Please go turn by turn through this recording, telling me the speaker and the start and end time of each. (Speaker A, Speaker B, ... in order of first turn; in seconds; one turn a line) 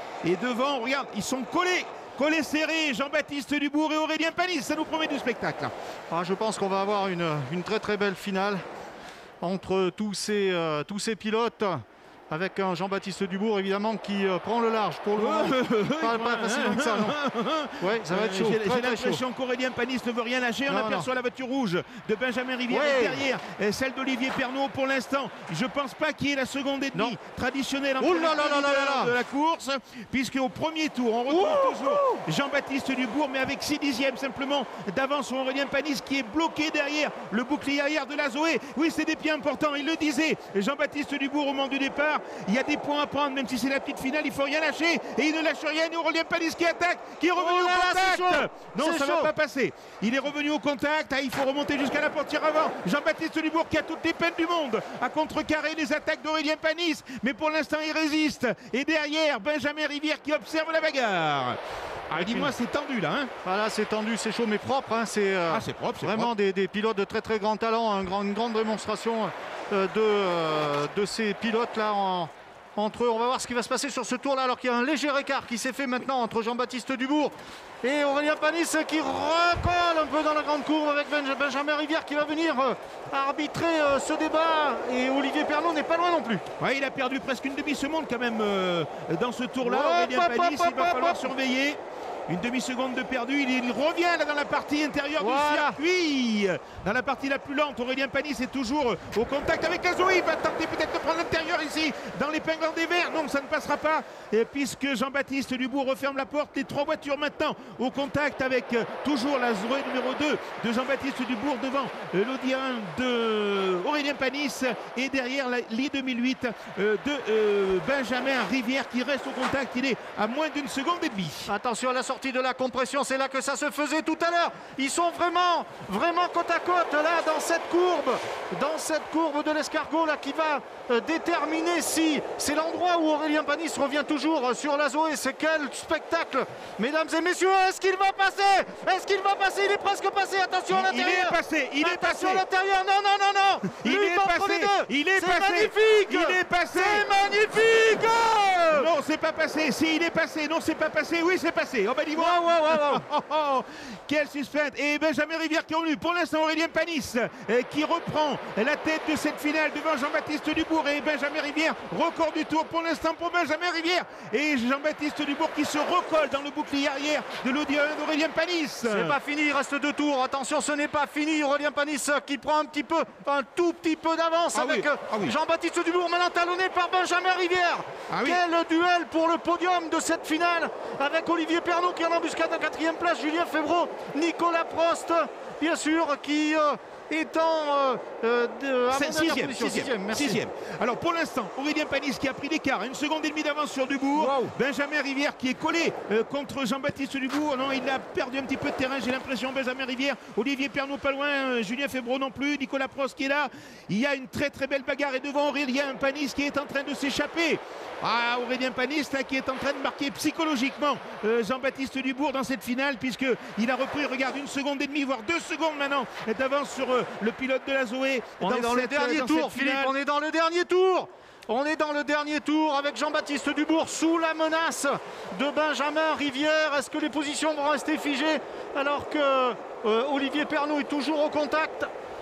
Speaker A: 0.2-5.7
Speaker B: 6.1-8.7
Speaker B: 9.4-17.2
Speaker A: 15.2-63.3
Speaker B: 17.8-19.2
Speaker B: 20.7-21.1
Speaker B: 22.7-23.2
Speaker B: 28.0-29.2
Speaker B: 31.3-32.2
Speaker B: 47.4-49.3
Speaker B: 62.1-62.5
Speaker B: 63.4-86.5
Speaker A: 65.5-66.3
Speaker A: 86.6-121.5
Speaker B: 89.6-91.3
Speaker B: 95.2-95.8
Speaker B: 121.5-148.9
Speaker A: 140.7-142.4
Speaker A: 143.7-147.1
Speaker A: 148.7-169.2
Speaker B: 152.2-153.0
Speaker B: 168.8-190.4
Speaker A: 174.5-175.3
Speaker A: 178.1-178.4
Speaker A: 188.9-219.9
Speaker B: 194.2-194.5
Speaker B: 218.4-231.9